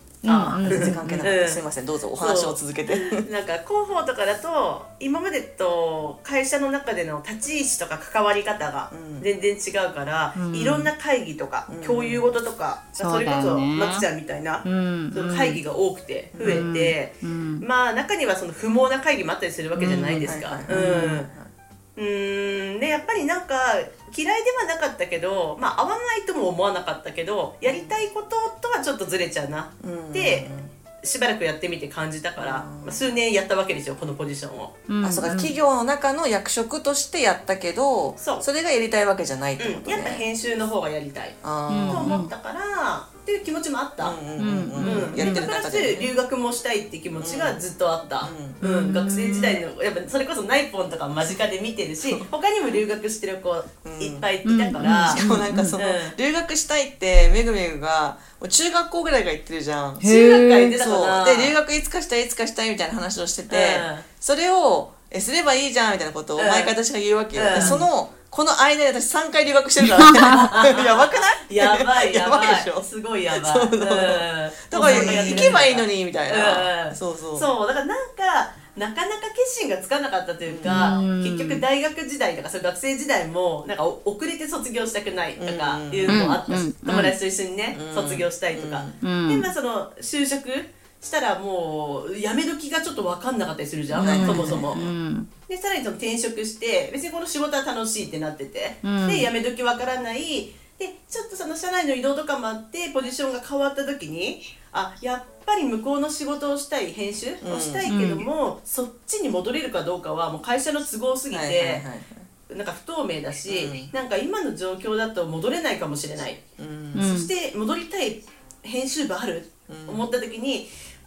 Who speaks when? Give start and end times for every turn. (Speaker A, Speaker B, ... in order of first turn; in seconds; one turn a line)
Speaker A: 0.2-1.0
Speaker B: 0.2-1.6
Speaker C: 0.6-3.3
Speaker B: 2.2-21.3
Speaker C: 8.9-9.3
Speaker A: 10.4-10.9
Speaker C: 11.7-12.2
Speaker A: 13.0-14.1
Speaker A: 14.6-15.6
Speaker C: 16.3-16.7
Speaker A: 16.4-17.6
Speaker A: 19.8-21.2
Speaker C: 20.2-21.5
Speaker B: 21.9-30.5
Speaker C: 27.6-27.9
Speaker C: 29.8-30.7
Speaker B: 31.0-34.8
Speaker C: 32.4-33.0
Speaker A: 34.9-35.5
Speaker C: 35.0-40.2
Speaker B: 38.2-38.4
Speaker B: 39.6-44.2
Speaker C: 41.4-42.1
Speaker A: 41.7-42.3
Speaker C: 44.0-46.1
Speaker A: 44.4-45.4
Speaker B: 44.8-55.2
Speaker C: 47.2-47.6
Speaker C: 48.2-48.6
Speaker A: 48.6-49.6
Speaker C: 52.0-52.3
Speaker C: 53.8-54.3
Speaker A: 54.4-55.8
Speaker C: 54.8-60.1
Speaker B: 55.7-56.1
Speaker A: 60.0-60.7
Speaker B: 60.0-61.6
Speaker C: 60.7-77.5
Speaker B: 63.5-64.1
Speaker B: 66.4-66.7
Speaker B: 67.3-67.8
Speaker B: 70.1-94.9
Speaker A: 74.8-75.6
Speaker C: 80.5-81.0
Speaker A: 80.7-81.6
Speaker C: 85.4-86.4
Speaker A: 86.1-87.1
Speaker C: 87.7-89.0
Speaker A: 89.0-89.5
Speaker A: 93.9-95.3
Speaker C: 94.0-94.9
Speaker B: 95.5-111.8
Speaker A: 98.8-99.3
Speaker C: 107.4-107.9
Speaker A: 107.9-108.2
Speaker C: 111.3-112.2
Speaker B: 112.5-120.7
Speaker C: 113.5-113.9
Speaker C: 116.6-117.1
Speaker A: 116.9-117.3
Speaker C: 119.7-120.1